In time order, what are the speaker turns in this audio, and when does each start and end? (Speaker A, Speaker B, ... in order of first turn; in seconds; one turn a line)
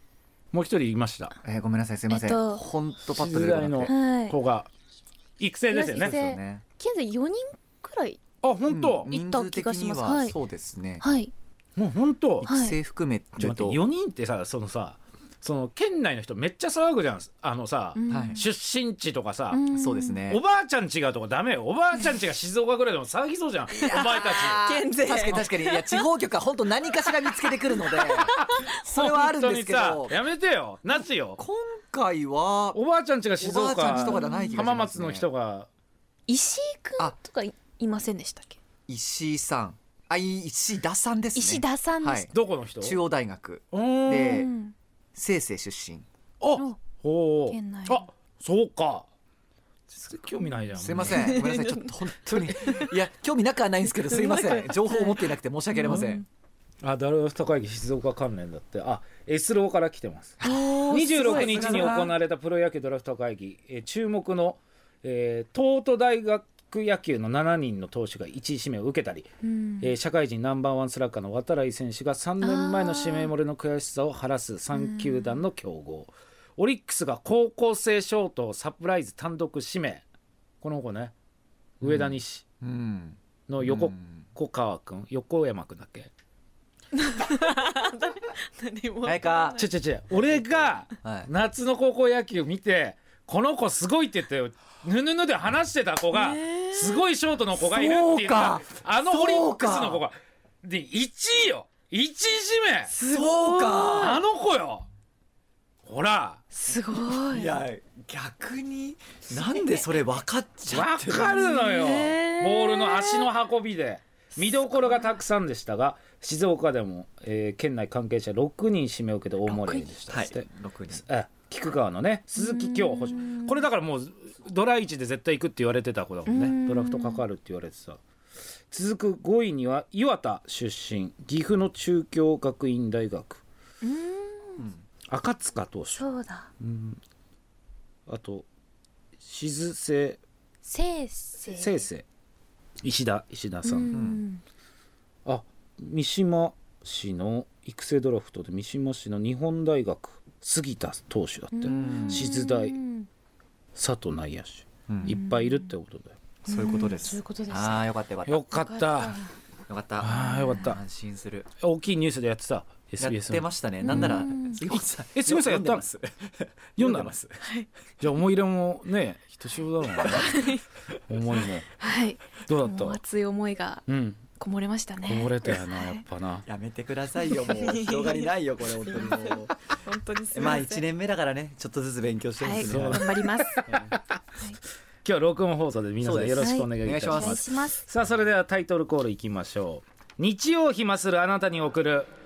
Speaker A: 0.5-1.3
Speaker B: 1.4-3.9
Speaker C: 2.1-2.6
Speaker A: 3.1-4.7
Speaker C: 3.9-4.3
Speaker A: 5.4-6.2
Speaker C: 5.7-8.2
Speaker B: 5.9-6.6
Speaker A: 8.4-9.1
Speaker B: 8.7-11.0
Speaker C: 9.1-10.4
Speaker C: 11.0-11.3
Speaker A: 11.8-12.5
Speaker B: 12.4-13.8
Speaker C: 12.4-12.8
Speaker A: 13.4-19.6
Speaker C: 17.9-18.4
Speaker B: 18.1-18.5
Speaker C: 19.5-20.2
Speaker B: 19.7-20.4
Speaker A: 20.3-24.6
Speaker B: 23.7-30.2
Speaker C: 23.8-26.1
Speaker C: 27.0-28.6
Speaker A: 28.4-31.4
Speaker B: 31.4-32.8
Speaker A: 32.7-35.7
Speaker B: 33.4-35.3
Speaker C: 33.8-34.7
Speaker C: 36.3-38.6
Speaker B: 38.9-44.5
Speaker C: 41.3-42.3
Speaker A: 42.3-43.0
Speaker A: 43.7-44.4
Speaker C: 44.1-44.7
Speaker B: 45.1-46.0
Speaker A: 46.4-49.1
Speaker C: 47.5-48.1
Speaker A: 49.9-51.3
Speaker B: 50.8-56.2
Speaker C: 51.1-53.0
Speaker C: 54.0-56.2
Speaker A: 56.8-69.3
Speaker B: 60.4-62.1
Speaker C: 60.4-62.0
Speaker C: 69.4-69.9
Speaker A: 69.8-80.0
Speaker C: 72.4-73.3
Speaker C: 74.7-75.4
Speaker A: 80.6-81.1
Speaker A: 81.8-82.4
Speaker B: 81.8-84.3
Speaker A: 83.5-86.1
Speaker C: 86.9-90.2
Speaker B: 89.0-89.6
Speaker A: 89.6-102.9
Speaker B: 91.0-91.3
Speaker C: 96.1-97.1
Speaker B: 97.7-100.0
Speaker C: 102.9-104.2
Speaker B: 103.0-104.2
Speaker A: 103.9-104.8
Speaker A: 105.8-106.4
Speaker C: 106.5-107.5
Speaker B: 106.9-111.6
Speaker C: 109.3-110.0
Speaker A: 110.7-128.0
Speaker C: 111.2-113.3
Speaker C: 114.6-115.2
Speaker B: 119.5-121.0
Speaker C: 122.3-123.6
Speaker C: 126.3-127.2
Speaker A: 128.7-133.4
Speaker C: 133.8-134.7
Speaker B: 134.6-134.8
Speaker A: 135.1-136.1
Speaker C: 135.9-136.5
Speaker A: 136.6-137.0
Speaker A: 138.1-138.4
Speaker A: 139.2-140.2
Speaker C: 140.6-141.8
Speaker A: 141.5-142.1
Speaker A: 142.8-144.0
Speaker C: 143.6-144.4
Speaker B: 143.9-144.2
Speaker A: 145.2-152.8
Speaker C: 151.5-153.1
Speaker B: 151.7-152.3
Speaker A: 153.7-156.2
Speaker B: 154.9-155.2
Speaker C: 155.1-155.7
Speaker C: 156.4-157.8
Speaker B: 156.5-158.4
Speaker A: 158.2-159.2
Speaker C: 158.5-159.3
Speaker B: 159.7-161.5
Speaker A: 160.0-160.8
Speaker C: 160.3-160.6
Speaker A: 161.6-165.9
Speaker B: 163.0-167.3
Speaker C: 163.8-164.6
Speaker A: 166.8-167.2
Speaker C: 167.4-167.7
Speaker A: 168.0-170.5
Speaker C: 170.1-170.6
Speaker A: 171.1-171.7
Speaker C: 171.8-176.0
Speaker A: 172.4-173.0
Speaker A: 173.9-174.2
Speaker A: 175.0-176.4
Speaker B: 176.4-179.5
Speaker C: 177.2-178.3
Speaker C: 178.8-180.8
Speaker B: 180.3-183.9
Speaker C: 182.4-183.8
Speaker A: 182.6-184.2
Speaker A: 185.0-192.1
Speaker B: 186.0-187.4
Speaker C: 186.4-187.8